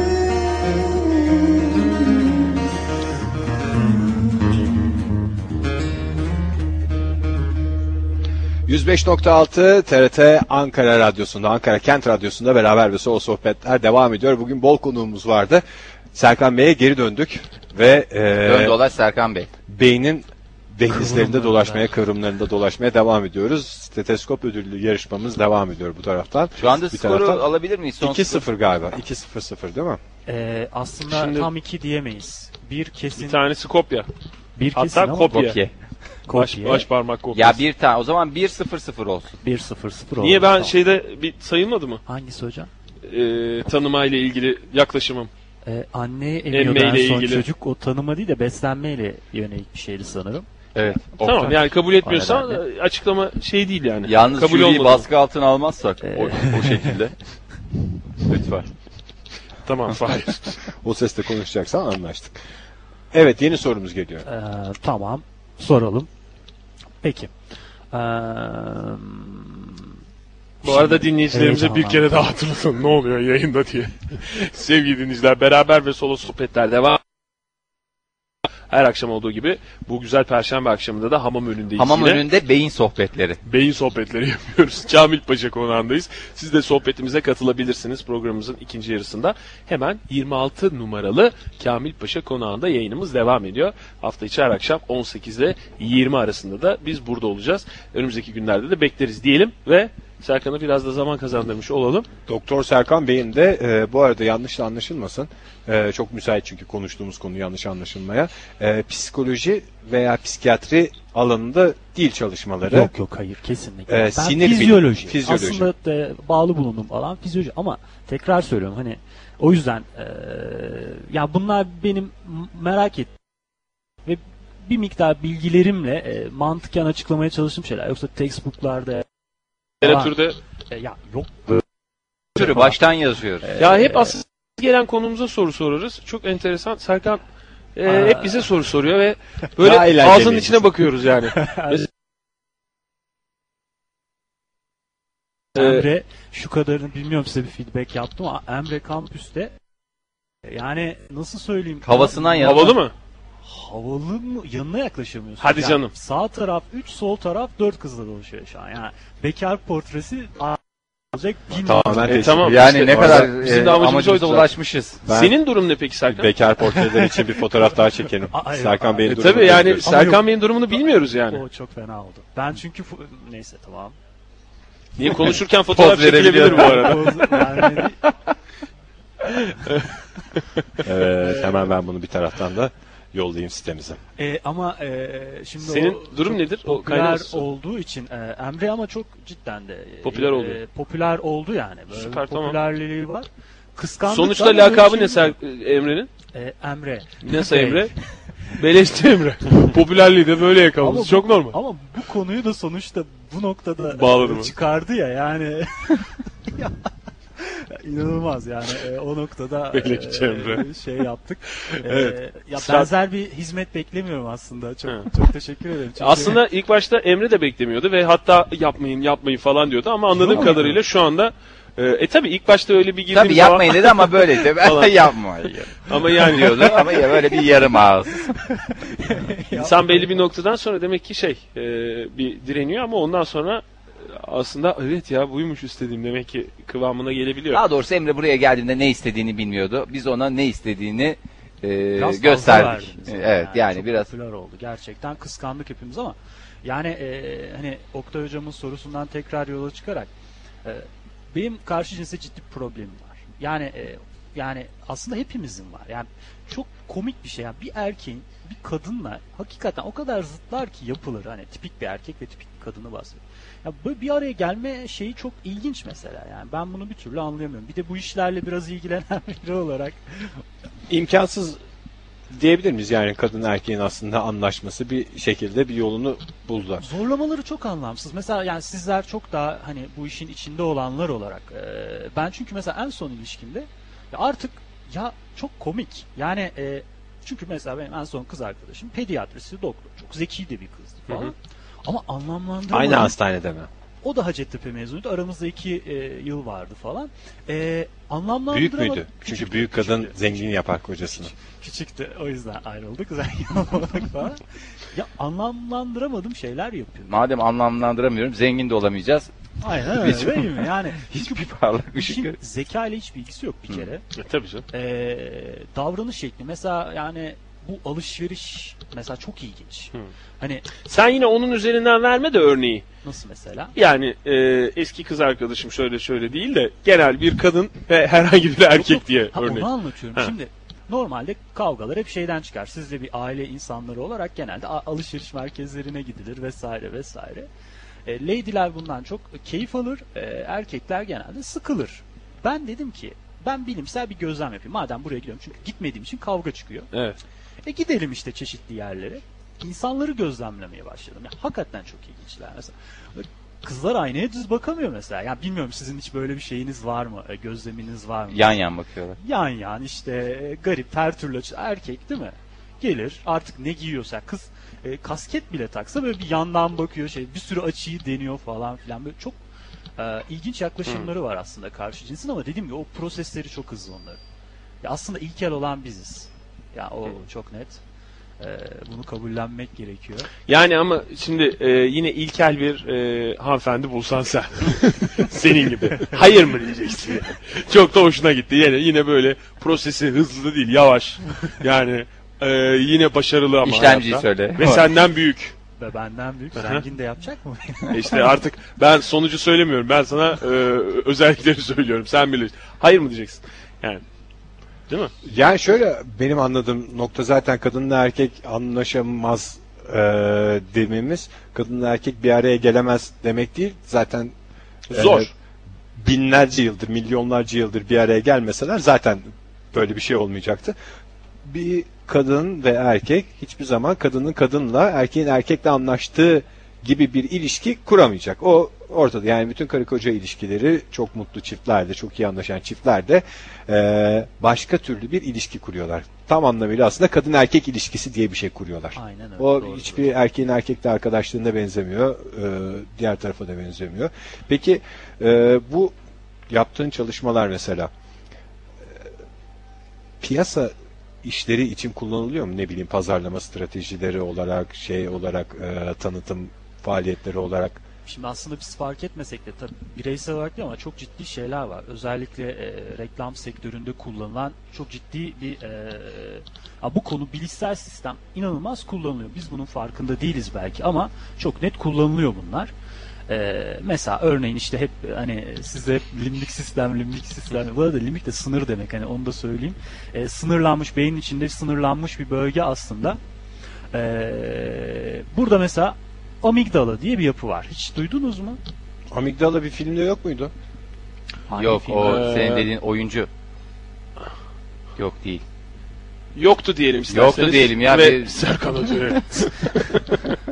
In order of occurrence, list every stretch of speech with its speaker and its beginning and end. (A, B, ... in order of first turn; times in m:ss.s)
0:08.7-0:18.8 A
0:18.4-0:19.5 B
0:19.7-0:27.4 A
0:20.9-0:21.9 C
0:26.6-0:28.4 B
0:28.0-0:30.0 A
0:30.3-0:33.4 C
0:31.1-0:31.5 D
0:33.2-0:34.1 D
0:34.6-0:35.5 C
0:34.7-0:35.6 D
0:35.3-0:35.7 B
0:36.3-0:36.9 C
0:36.3-0:37.6 D
0:37.3-0:39.3 B
0:39.4-0:40.7 C
0:40.2-0:42.0 D
0:42.0-0:42.7 C
0:43.0-0:45.3 D
0:45.6-0:50.5 C
0:46.5-0:47.4 D
0:50.7-0:52.5 B
0:51.2-0:55.1 D
0:54.0-0:57.1 B
0:56.0-0:57.0 C
0:58.2-0:58.7 B
0:59.7-1:00.6 D
1:00.8-1:02.4 A
1:03.1-1:04.2 A
1:04.2-1:06.1 C
1:07.0-1:07.3 C
1:07.9-1:09.9 C
1:10.6-1:12.1 C
1:10.6-1:17.0 D
1:18.7-1:22.2 D
1:21.8-1:23.4 B
1:23.4-1:42.1 D
1:42.3-1:52.9 A
1:52.7-2:03.1 C
1:53.9-1:55.7 A
2:04.0-2:09.0 C
2:09.8-2:10.4 D
2:09.8-2:11.6 C
2:12.4-2:12.8 C
2:12.4-2:13.5 B
2:13.4-2:14.2 C
2:13.6-2:17.2 D
2:17.8-2:21.9 D
2:17.8-2:18.5 C
2:19.6-2:20.7 A
2:21.3-2:21.8 C
2:25.6-2:29.6 C
2:25.6-2:25.9 D
2:30.4-2:32.8 C
2:31.8-2:32.8 B
2:32.4-2:32.9 D
2:33.4-2:40.6 C
2:35.4-2:35.9 D
2:41.1-2:42.3 C
2:41.6-2:43.3 A
2:42.0-2:44.5 D
2:42.4-2:45.0 B
2:45.0-2:45.4 A
2:45.0-2:46.3 D
2:46.1-2:50.1 A
2:46.7-2:47.2 C
2:48.3-2:50.2 C
2:49.0-2:51.4 D
2:51.3-2:54.0 C
2:55.0-2:57.6 D
2:55.7-2:57.1 B
2:56.5-2:58.0 C
2:59.5-3:00.4 D
3:00.8-3:04.0 A
3:04.2-3:15.3 C
3:05.6-3:07.4 D
3:10.0-3:10.6 D
3:11.9-3:12.6 D
3:14.1-3:16.1 D
3:16.3-3:17.9 C
3:17.2-3:17.9 D
3:18.6-3:21.6 D
3:20.8-3:36.4 C
3:23.9-3:24.5 D
3:29.7-3:30.7 D
3:31.7-3:32.9 D
3:36.0-3:45.1 D
3:40.1-3:40.8 C
3:43.1-3:48.3 B
3:45.8-3:47.3 D
3:48.4-3:50.2 C
3:49.5-3:57.6 D
3:57.5-4:04.1 B
4:02.0-4:10.1 C
4:10.6-4:30.4 C
4:30.9-4:31.6 A
4:32.3-4:36.8 A
4:36.8-4:53.2 C
4:52.7-4:53.7 A
4:54.0-5:00.6 C
4:58.5-5:01.3 A
5:01.1-5:07.1 C
5:07.1-5:09.3 B
5:09.6-5:14.0 C
5:10.0-5:12.3 B
5:14.2-5:14.6 D
5:14.7-5:20.7 C
5:20.8-5:22.8 D
5:23.0-5:23.7 C
5:23.8-5:30.3 D
5:28.7-5:37.5 C
5:38.0-5:46.9 C
5:46.9-5:47.2 D
5:47.6-5:58.6 C
5:58.3-5:59.2 B
5:59.2-6:09.4 C
6:10.0-6:14.2 C
6:14.8-6:17.8 C
6:18.4-6:20.3 C
6:20.5-6:35.6 D
6:33.6-6:34.9 B
6:35.8-6:38.3 C
6:36.6-6:36.8 D
6:37.9-6:44.0 D
6:45.2-6:54.3 A
6:54.9-6:55.3 A
6:54.9-6:55.3 D
6:56.0-7:00.7 A
7:01.4-7:25.9 A
7:19.0-7:20.1 C
7:26.5-7:27.9 A
7:30.2-7:30.7 A
7:31.2-7:37.8 A
7:38.0-7:52.7 C
7:53.3-8:03.2 C
8:03.9-8:08.6 C
8:09.1-8:10.5 A
8:11.5-8:12.4 C
8:11.5-8:13.3 B
8:12.0-8:12.7 D
8:15.0-8:15.4 B
8:16.4-8:20.4 D
8:17.1-8:18.3 B